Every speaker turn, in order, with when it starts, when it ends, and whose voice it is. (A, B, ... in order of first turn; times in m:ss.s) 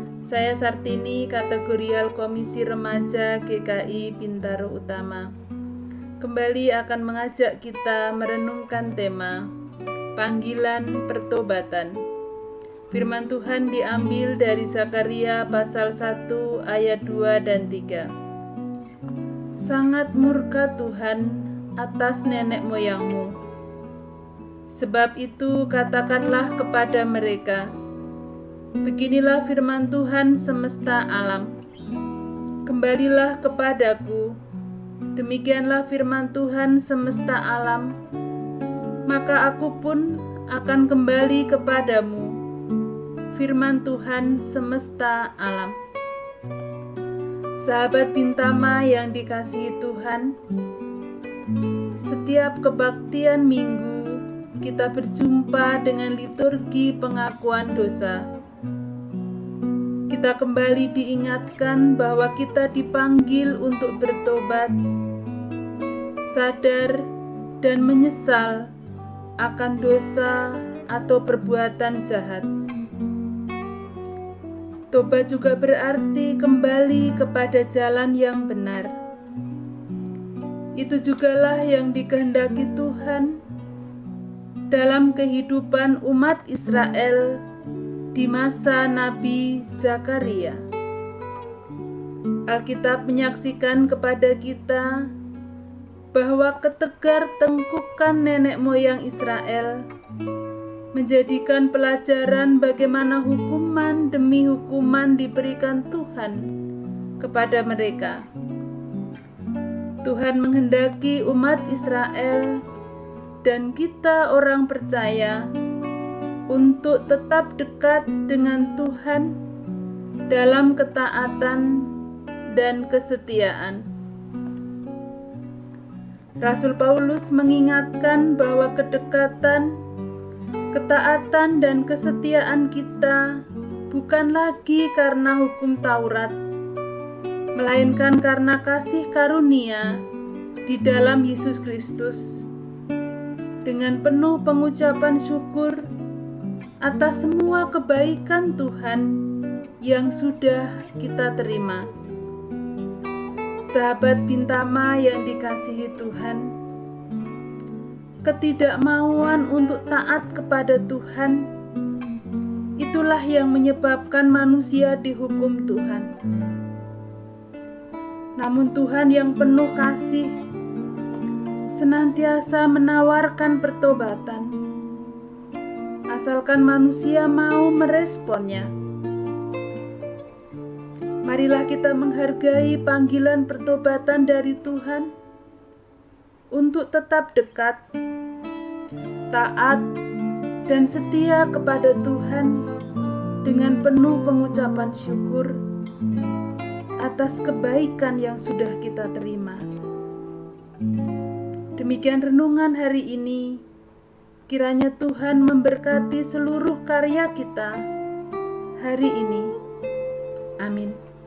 0:00.2-0:05.3 A
0:06.2-0:09.5 A
0:10.2-0:12.0 A
0:12.9-0:18.1 A
0:19.6-0:23.3 A
0:24.7-0:27.7 A
0:28.8-0:31.5 A
0:32.6-0:34.4 A
0:35.2-0:37.9 A
0:39.1-0:42.4 A
0:43.3-0:45.8 A
0:47.6-0:50.4 A
0:52.0-0:58.2 A
1:00.1-1:04.8 A
1:06.3-1:07.1 A
1:07.6-1:08.7 A
1:09.4-1:12.5 A
1:14.9-1:18.9 A
1:20.8-1:23.4 A
1:24.7-1:27.4 A
1:28.1-1:30.6 A
1:32.5-1:35.1 A
1:36.1-1:39.8 A
1:40.9-1:46.5 A
1:47.2-1:48.2 A
1:50.0-1:52.6 A
1:53.4-1:55.4 A
1:56.5-1:59.4 A
2:00.3-2:01.9 A
2:02.5-2:03.9 A
2:06.4-2:09.8 A
2:10.7-2:16.4 A
2:17.6-2:20.0 A
2:20.6-2:22.4 A
2:23.6-2:25.9 A
2:26.8-2:29.2 A
2:29.8-2:31.9 A
2:33.7-2:36.5 A
2:38.2-2:41.5 A
2:42.8-2:46.1 A
2:48.4-2:50.4 A
2:51.8-2:54.6 A
2:56.1-2:58.7 A
3:01.2-3:05.1 A
3:06.5-3:07.8 A
3:09.3-3:09.9 A
3:10.7-3:12.6 A
3:13.4-3:15.6 A
3:17.0-3:19.6 A
3:21.8-3:23.6 A
3:24.5-3:27.8 A
3:28.8-3:29.5 A
3:30.6-3:31.0 A